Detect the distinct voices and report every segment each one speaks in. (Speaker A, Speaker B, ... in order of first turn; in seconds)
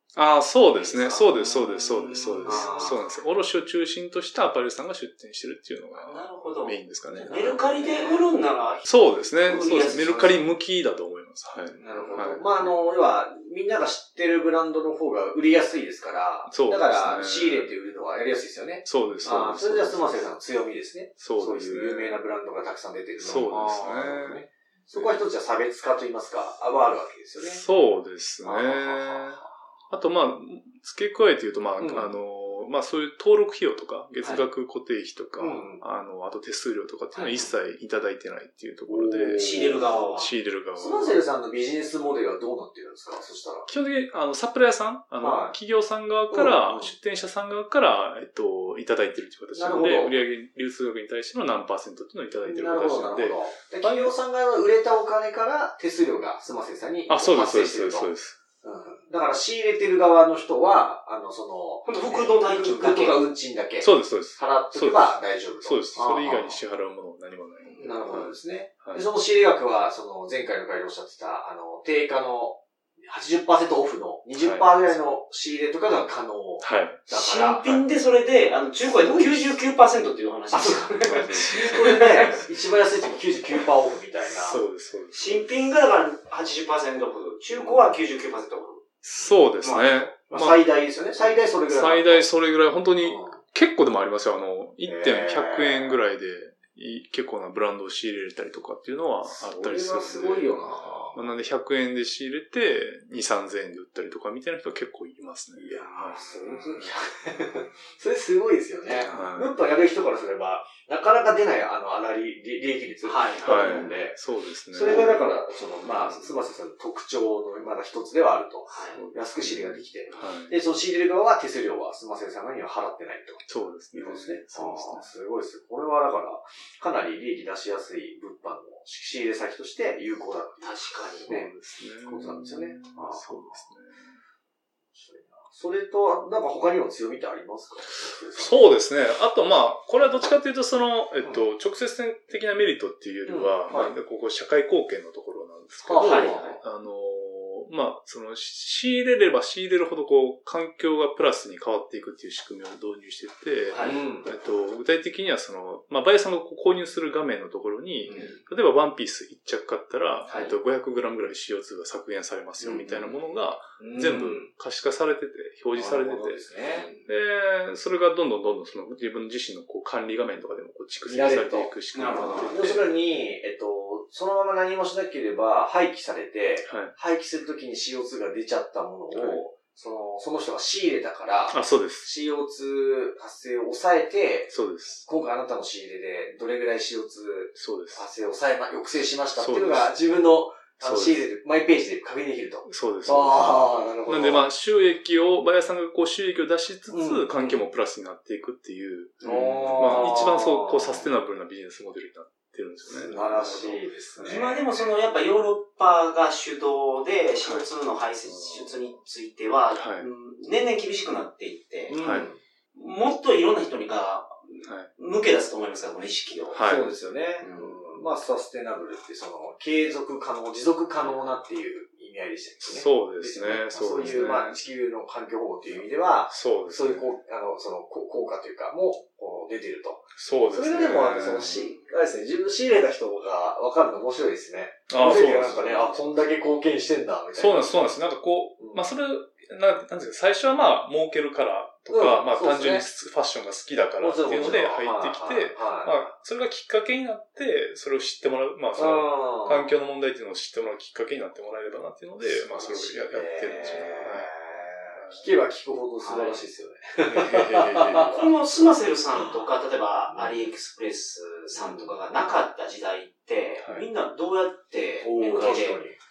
Speaker A: 0.1-7.8, 8.8-12.7, 16.4-17.7, 18.8-20.3, 21.2-22.2, 23.2-25.2, 27.4-39.6, 40.1-41.2, 43.7-54.1, 57.1-58.4, 63.8-69.1, 74.3-75.0, 76.6-77.1, 77.6-77.9, 81.0-82.4, 84.3-85.5, 89.0-90.7, 91.6-106.2, 108.9-109.5, 113.4-115.1, 118.9-120.5, 123.5-125.1, 131.3-134.0, 138.3-166.4, 167.0-172.9, 176.6-176.9, 179.1-179.4, 181.5-182.1, 184.5-185.0, 187.6-188.1, 189.3-190.0, 190.8-191.3, 192.7-204.3, 207.4-207.7, 209.8-210.1, 212.0-212.3, 214.6-214.9, 216.5-216.9, 222.6-224.6, 226.3-227.1, 230.2-231.6, 234.9-236.1, 237.3-254.3, 254.9-255.2, 257.0-258.7, 263.6-263.9
Speaker B: 0.7-1.3, 2.4-3.0, 5.9-10.4, 11.8-12.4, 37.1-37.5, 39.3-40.3, 61.8-63.3, 67.6-68.1, 77.1-82.3, 85.1-88.8, 89.6-90.0, 106.2-106.6, 113.0-113.9, 114.9-115.2, 115.9-116.3, 118.7-119.0, 130.6-131.3, 146.0-146.6, 153.7-154.0, 158.1-158.3, 160.3-160.5, 162.6-162.9, 163.9-164.5, 166.7-167.1, 171.9-172.6, 199.2-200.0, 204.2-212.0, 212.7-216.6, 217.4-217.8, 256.0-256.5, 258.1-265.8
Speaker C: 2.0-3.0, 7.1-8.3, 11.7-27.6, 28.4-29.5, 31.8-32.2, 35.4-35.8, 38.9-40.0, 40.8-43.7, 45.2-45.5, 46.3-46.9, 49.5-50.2, 52.4-58.1, 58.6-66.6, 67.8-77.7, 79.0-79.6, 80.5-84.6, 87.5-87.9, 90.3-92.2, 93.0-93.4, 94.8-96.0, 99.2-101.3, 105.5-133.6, 134.9-138.7, 143.2-143.9, 145.8-146.6, 153.8-154.3, 158.1-158.4, 163.8-164.3, 165.7-166.9, 171.1-184.5, 185.0-194.5, 196.9-197.6, 199.2-201.0, 202.8-204.8, 208.2-208.8, 211.9-212.4, 216.6-237.9, 241.9-242.8, 244.0-246.1, 248.7-249.8, 252.2-258.2, 259.1-259.4, 261.6-262.0, 265.0-266.0